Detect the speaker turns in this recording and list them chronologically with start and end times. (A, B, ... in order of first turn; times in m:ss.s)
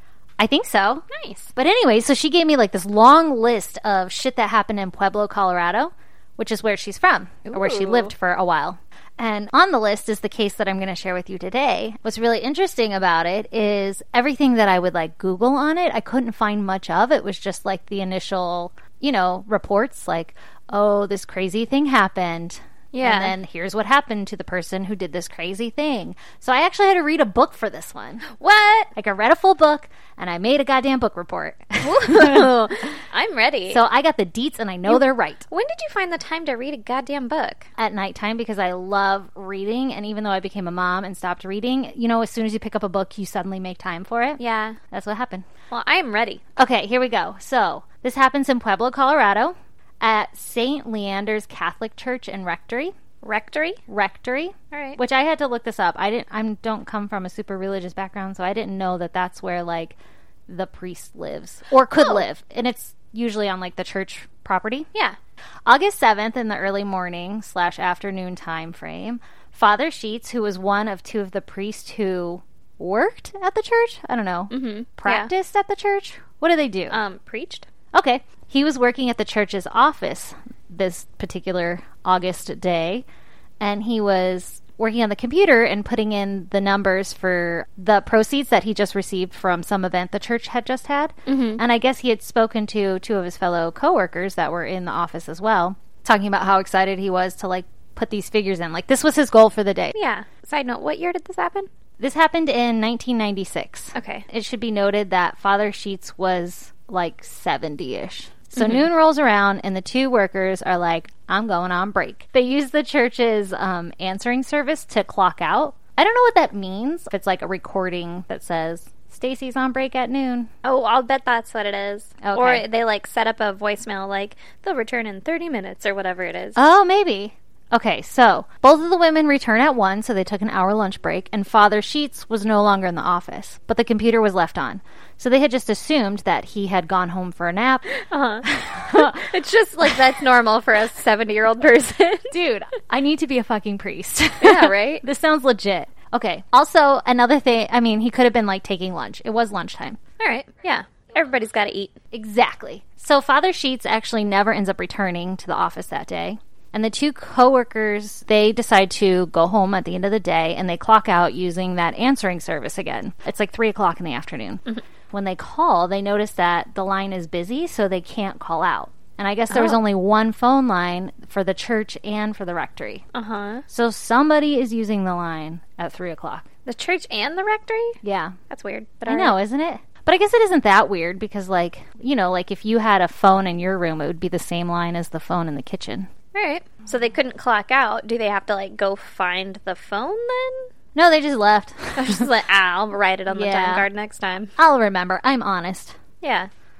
0:00.4-0:28.3 A
0:01.1-0:01.5 B
0:07.5-0:08.1 B
0:22.9-0:23.3 B
0:28.3-0:28.9 B
0:29.0-0:32.5 A
0:31.8-0:33.8 B
0:33.7-0:35.5 A
0:34.9-0:37.7 B
0:37.8-0:45.4 A
0:44.4-0:44.8 B
0:45.7-0:46.4 B
0:46.6-0:53.0 A
0:53.2-0:53.8 B
0:53.9-1:00.0 A
0:54.7-0:55.0 B
1:00.5-1:04.9 A
1:01.9-1:02.2 B
1:05.7-1:17.0 A
1:14.5-1:15.3 B
1:16.9-1:17.7 B
1:17.9-1:23.0 A
1:23.6-1:40.0 A
1:31.3-1:31.6 B
1:39.9-1:41.7 B
1:42.0-2:00.5 A
1:44.0-1:44.3 B
1:48.6-1:48.9 B
2:00.6-2:06.6 B
2:02.2-2:02.6 A
2:06.6-2:19.2 A
2:18.0-2:22.4 B
2:22.3-2:30.0 A
2:24.4-2:25.0 B
2:30.2-2:32.0 B
2:32.1-2:53.0 A
2:49.5-2:49.8 B
2:53.1-2:53.6 B
2:53.7-2:56.5 A
2:56.7-2:58.0 B
2:58.0-2:58.4 A
2:58.5-2:59.4 B
2:59.1-3:06.1 A
3:06.3-3:10.7 B
3:11.0-3:12.3 A
3:12.0-3:14.5 B
3:13.3-3:13.9 A
3:14.6-3:16.0 A
3:16.2-3:16.5 B